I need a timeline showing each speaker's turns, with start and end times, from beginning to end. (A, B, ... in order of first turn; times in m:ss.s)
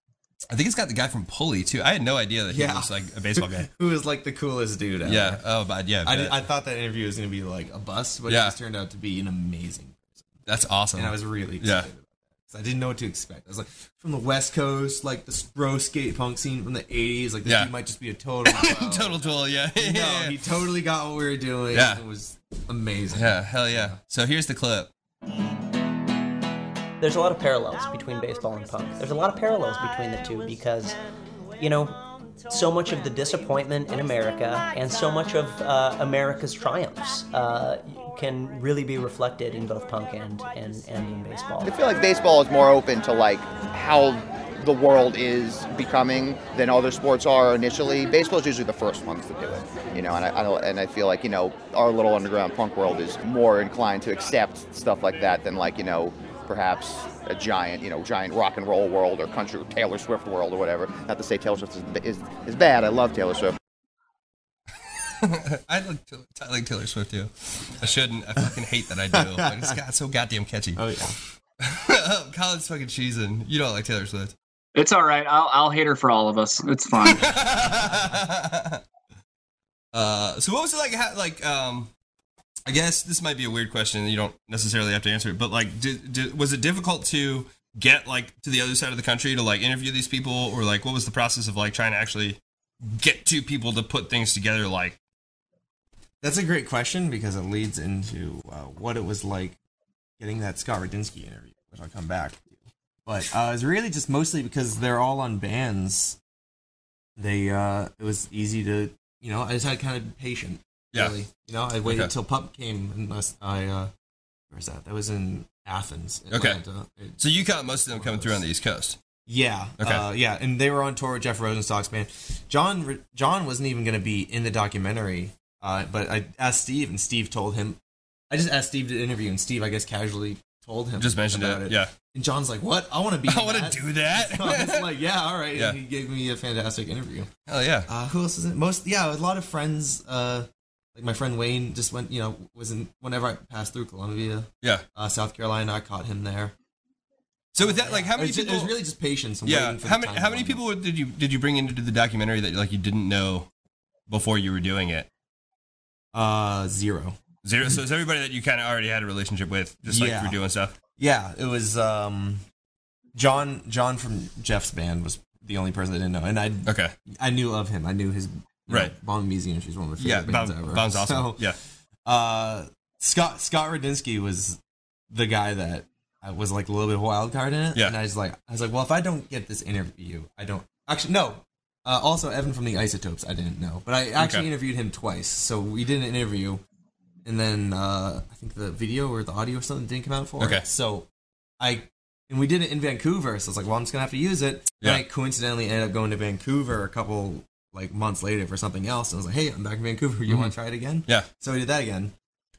0:00.5-0:03.7 A
0:02.5-0:05.4 B
0:05.0-0:06.4 A
0:06.0-0:10.4 B
0:08.3-0:08.6 A
0:10.5-0:11.9 A
0:10.9-0:24.0 B
0:17.5-0:17.7 A
0:18.5-0:20.4 A
0:21.7-0:22.0 A
0:23.1-0:24.9 A
0:27.0-0:31.0 C
0:31.6-0:41.7 C
0:41.6-1:03.6 D
1:05.2-1:10.8 A
1:09.1-1:09.8 B
1:10.8-1:11.2 B
1:11.6-1:14.3 A
1:14.8-1:17.4 E
1:17.0-1:18.8 A
1:19.9-1:21.9 A
1:22.7-1:35.0 A
1:36.2-1:39.6 B
1:40.2-1:46.2 B
1:47.2-1:53.9 B
1:51.8-1:52.1 A
1:54.5-1:58.4 B
1:56.3-1:56.6 A
1:57.2-1:59.0 A
1:59.3-2:07.8 B
1:59.8-2:00.0 A
2:08.3-2:17.3 B
2:11.0-2:11.9 A
2:13.3-2:14.9 A
2:17.5-2:17.9 A
2:17.9-2:26.5 B
2:27.5-2:28.8 A
2:27.6-2:30.6 B
2:29.4-2:33.5 A
2:34.1-2:35.1 A
2:36.1-2:37.2 B
2:37.4-2:40.7 A
2:39.8-2:40.4 B
2:41.0-2:42.4 B
2:43.1-2:54.6 B
2:46.7-2:46.9 A
2:48.7-2:48.9 A
2:50.0-2:51.6 A
2:55.1-3:06.6 B
3:04.2-3:04.5 A
3:07.2-3:11.1 B
3:10.4-3:10.6 A
3:11.6-3:22.1 B
3:20.3-3:20.5 A